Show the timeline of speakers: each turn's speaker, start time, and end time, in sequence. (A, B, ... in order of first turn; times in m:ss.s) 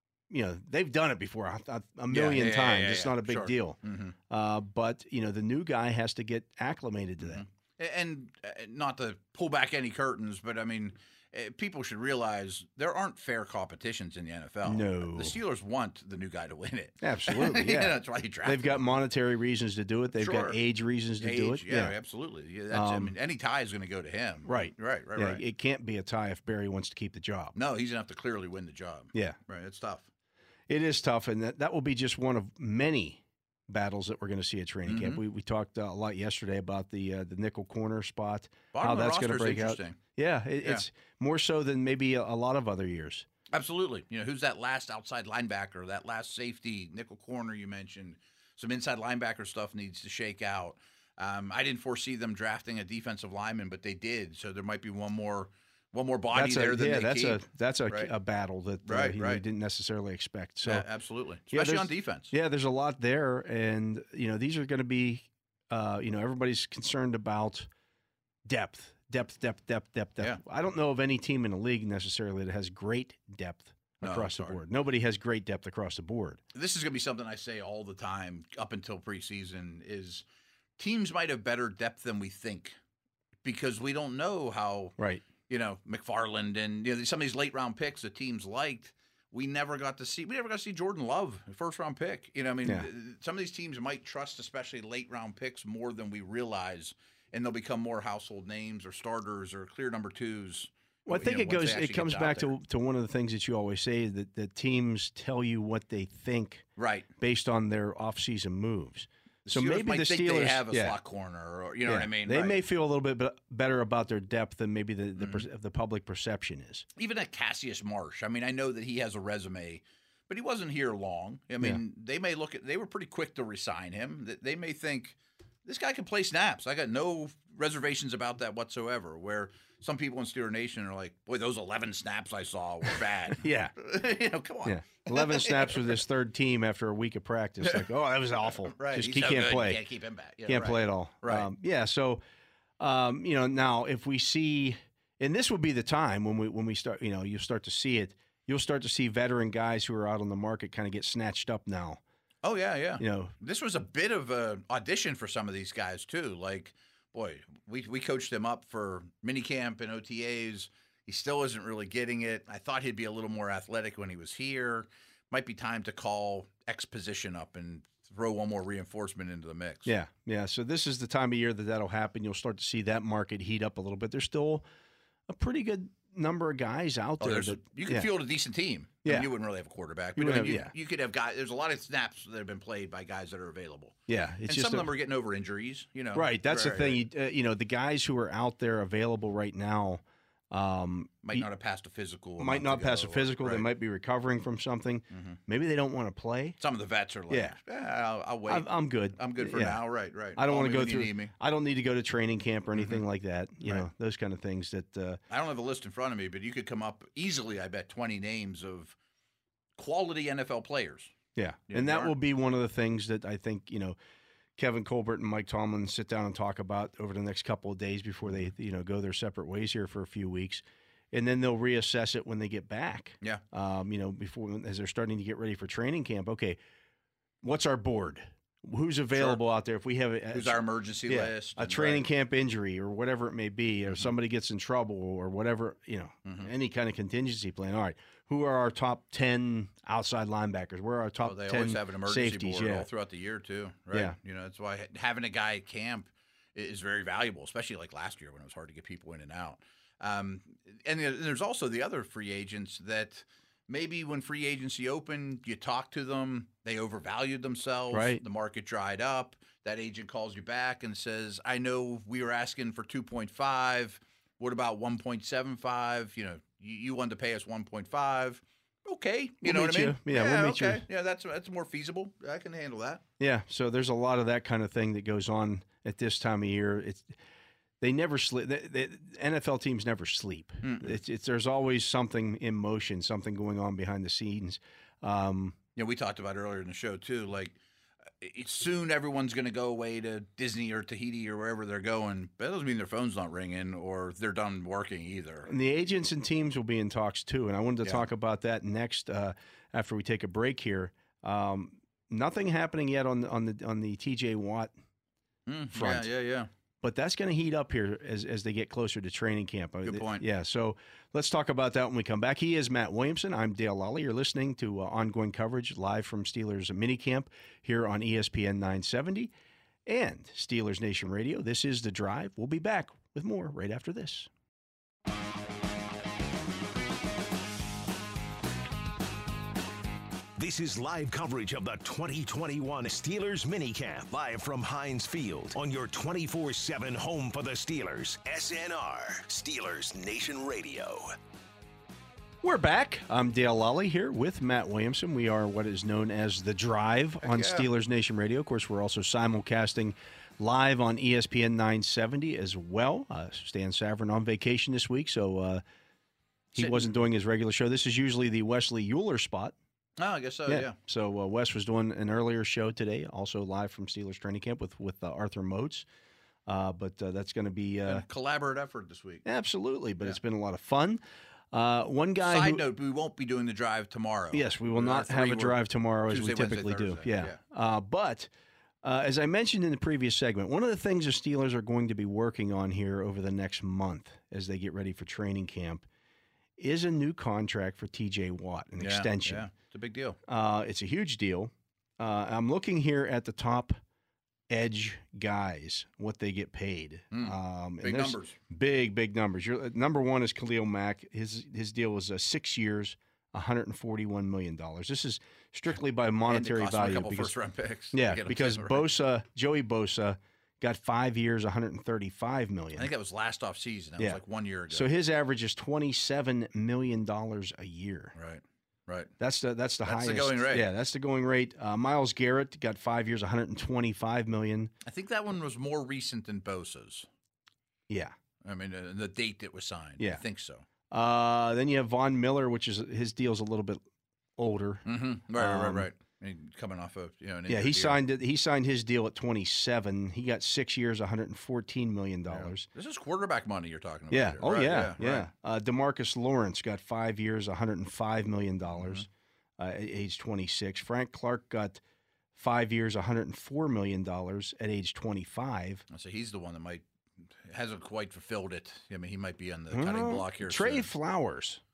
0:00.3-0:07.4 A
0:02.1-0:04.1 B
0:07.2-0:18.8 B
0:14.6-0:15.3 A
0:17.0-0:21.9 A
0:20.2-0:20.6 B
0:21.2-0:25.4 B
0:22.7-0:23.1 A
0:24.4-0:27.6 A
0:27.5-0:30.1 B
0:30.7-0:43.2 A
0:34.9-0:35.2 B
0:38.7-0:40.0 B
0:43.5-0:58.1 B
0:56.3-1:00.8 A
0:58.8-0:59.4 B
1:00.6-1:02.3 B
1:01.5-1:07.7 A
1:08.4-1:16.4 A
1:14.0-1:14.6 B
1:16.5-1:20.2 B
1:20.8-1:22.8 B
1:23.4-1:24.9 B
1:25.0-1:25.2 A
1:25.5-1:42.5 B
1:41.1-1:46.7 A
1:46.8-1:47.1 B
1:47.2-1:51.0 A
1:49.4-1:52.6 B
1:51.8-1:56.8 A
1:55.2-1:55.4 B
1:57.0-2:16.0 B
2:13.3-2:13.9 A
2:14.6-2:19.8 A
2:18.7-2:21.5 B
2:20.4-2:22.2 A
2:22.8-2:32.0 A
2:32.4-2:49.9 B
2:33.0-2:33.3 A
2:49.8-2:54.6 A
2:55.3-2:58.1 A
2:57.2-3:04.0 B
2:59.0-2:59.3 A
3:00.2-3:00.7 A
3:04.1-3:04.9 A
3:04.5-3:07.0 B
3:06.1-3:11.5 A
3:11.2-3:13.6 B
3:12.4-3:16.6 A
3:15.1-3:15.4 B
3:16.6-3:21.3 B
3:17.3-3:17.6 A
3:18.5-3:25.2 A
3:22.7-3:23.0 B
3:25.3-3:28.9 B
3:29.8-3:31.1 B
3:31.4-3:34.0 A
3:31.7-3:32.1 B
3:34.6-3:46.6 A
3:47.4-4:02.9 A
3:49.1-3:49.4 B
3:50.3-3:52.1 B
3:53.9-3:54.1 B
3:56.2-3:56.5 B
4:01.2-4:33.0 B
4:03.9-4:04.2 A
4:17.9-4:18.2 A
4:29.4-4:30.8 A
4:33.2-4:37.1 A
4:37.8-4:45.6 A
4:40.6-4:41.0 B
4:45.8-4:47.6 B
4:48.2-4:55.5 B
4:55.5-5:04.7 A
5:05.5-5:06.5 B
5:05.7-5:06.1 A
5:06.8-5:19.3 A
5:09.8-5:10.2 B
5:19.8-5:24.3 A
5:30.4-5:41.1 C
5:42.4-5:55.6 A
5:47.2-5:47.7 B
5:56.5-5:59.6 A
5:56.6-5:56.9 B
6:00.0-6:00.8 B
6:00.5-6:05.8 A
6:06.4-6:08.0 A
6:07.8-6:09.2 B
6:09.2-6:11.0 A
6:11.5-6:12.6 A
6:12.2-6:17.4 B
6:14.3-6:18.3 A
6:18.8-6:25.8 A
6:26.6-6:29.5 A
6:28.8-6:30.2 B
6:30.3-6:33.8 A
6:34.5-6:47.3 A
6:37.1-6:38.4 B
6:46.2-6:48.9 B
6:47.9-6:52.9 A
6:52.7-6:54.9 B
6:54.0-6:58.1 A
6:58.1-6:59.1 B
6:59.2-7:04.7 A
6:59.8-7:00.7 B
7:04.8-7:07.1 B
7:07.9-7:08.1 A
7:08.4-7:10.6 B
7:10.9-7:13.8 A
7:14.4-7:15.9 A
7:14.8-7:18.0 B
7:17.5-7:22.7 A
7:22.3-7:25.3 B
7:24.1-7:29.1 A
7:28.7-7:29.0 B
7:29.6-7:31.8 A
7:32.4-7:35.8 A
7:35.9-7:36.8 B
7:37.4-7:40.9 B
7:39.7-7:41.6 A